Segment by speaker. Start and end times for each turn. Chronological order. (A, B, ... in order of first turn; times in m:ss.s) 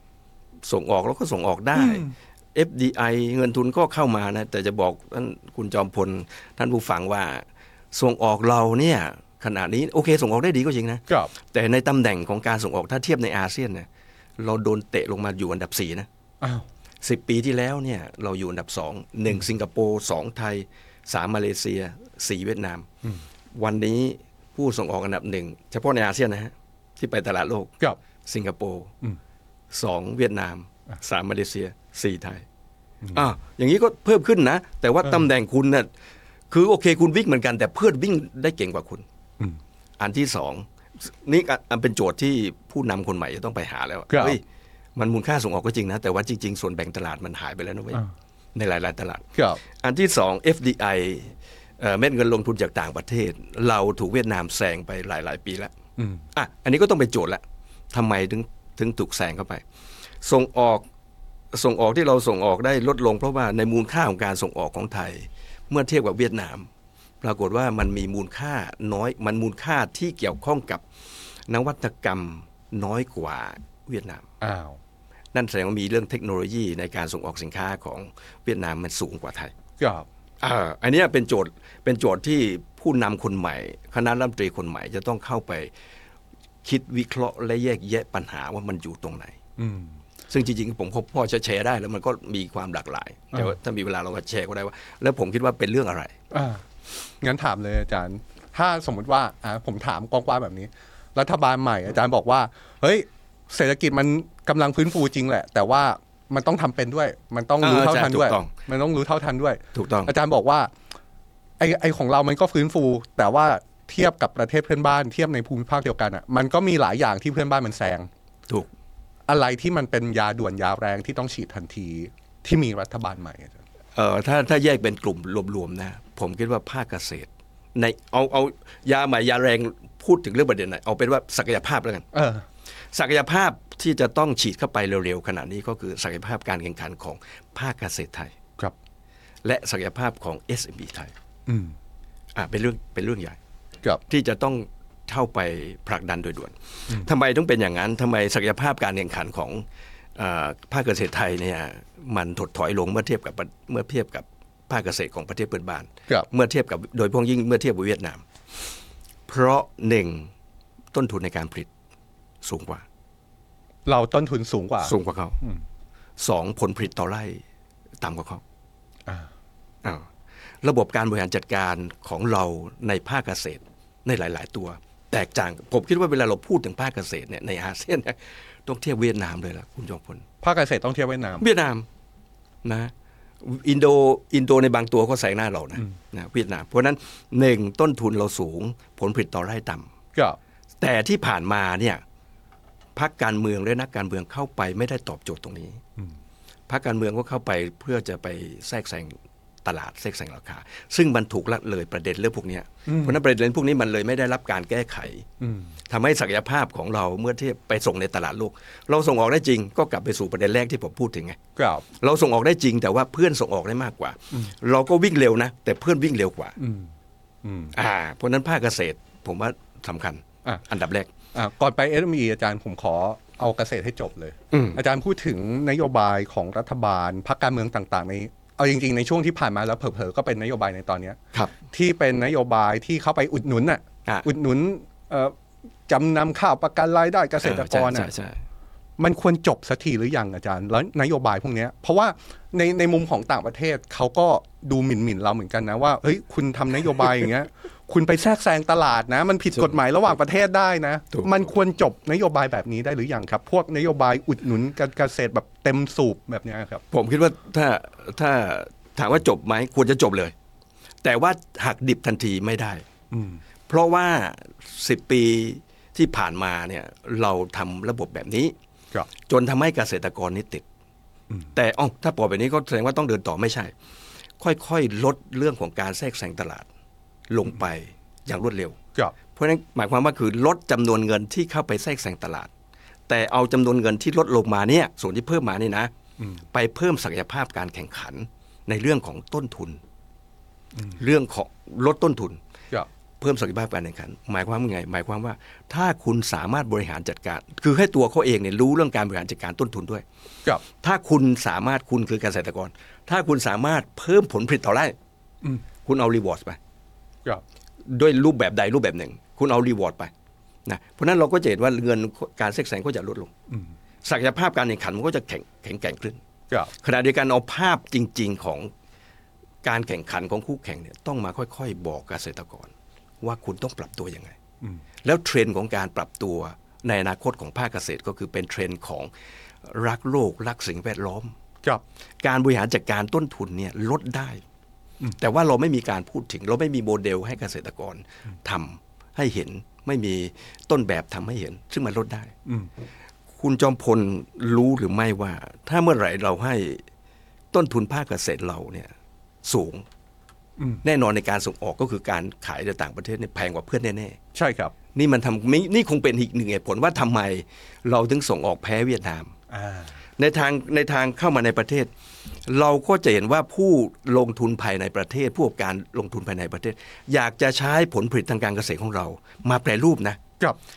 0:00.6-0:13.9 A
0:01.8-0:02.1 B
0:14.4-0:16.1 A
0:17.0-0:22.9 A
0:23.6-0:28.9 A
0:29.7-0:32.4 A
0:33.1-0:35.9 A
0:36.5-0:39.0 A
0:40.0-0:44.4 A
0:44.1-0:44.4 B
0:45.0-0:48.0 A
0:48.5-0:55.7 A
0:49.4-0:49.6 B
0:56.0-0:56.2 B
0:56.3-0:59.6 A
1:00.2-1:00.8 A
1:01.5-1:06.7 A
1:07.2-1:10.8 A
1:11.5-1:14.3 A
1:14.4-1:14.8 B
1:15.3-1:19.5 A
1:19.8-1:20.1 B
1:20.4-1:25.7 A
1:26.6-1:29.4 A
1:29.6-1:30.0 B
1:30.3-1:36.1 A
1:36.3-1:36.6 B
1:37.2-1:50.7 B
1:47.6-1:48.5 A
1:49.7-1:50.1 A
1:51.6-1:58.1 B
1:59.3-2:03.6 B
2:04.0-2:12.1 A
2:12.1-2:12.4 B
2:12.9-2:18.3 A
2:19.4-2:21.1 A
2:21.5-2:21.8 B
2:22.3-2:23.4 A
2:24.1-2:29.6 A
2:30.2-2:38.2 A
2:39.3-2:40.3 A
2:40.9-2:41.7 A
2:42.4-2:42.8 A
2:43.8-2:45.6 B
2:44.8-2:45.4 A
2:46.2-2:47.4 A
2:48.0-2:48.4 A
2:50.6-3:00.2 A
3:00.4-3:01.4 B
3:01.4-3:01.8 A
3:02.6-3:02.9 A
3:03.4-3:09.9 A
3:10.8-3:12.0 A
3:13.0-3:15.8 A
3:16.7-3:25.3 A
3:22.8-3:23.2 B
3:25.4-3:25.7 B
3:25.9-3:31.4 A
3:31.6-3:31.8 B
3:31.9-3:36.6 A
3:36.6-3:36.9 B
3:37.4-3:37.7 B
3:37.7-3:41.1 A
3:41.3-3:55.3 B
3:44.5-3:44.8 A
3:55.9-3:58.1 B
3:57.4-3:58.4 A
3:59.0-4:16.8 B
4:16.9-4:20.3 A
4:21.0-4:22.8 A
4:23.1-4:23.4 B
4:23.7-4:28.5 A
4:29.3-4:30.6 A
4:31.5-4:33.7 A
4:34.4-4:36.7 A
4:37.3-4:38.8 A
4:39.3-4:42.5 A
4:43.1-4:45.9 A
4:46.5-4:49.8 A
4:50.9-4:52.4 A
4:53.2-5:00.0 A
5:00.8-5:04.9 A
5:05.8-5:06.6 A
5:07.9-5:10.1 A
5:10.7-5:13.3 A
5:14.0-5:16.2 A
5:16.8-5:18.7 A
5:19.6-5:24.3 A
5:25.0-5:29.1 A
5:29.6-5:31.3 A
5:32.2-5:34.4 A
5:35.2-5:42.3 A
5:43.4-5:46.8 A
5:47.5-5:48.9 A
5:49.4-5:49.8 A
5:50.8-5:54.2 A
5:54.3-5:54.7 B
5:54.9-5:59.3 A
5:59.5-5:59.9 B
6:00.2-6:01.9 A
6:02.5-6:10.2 A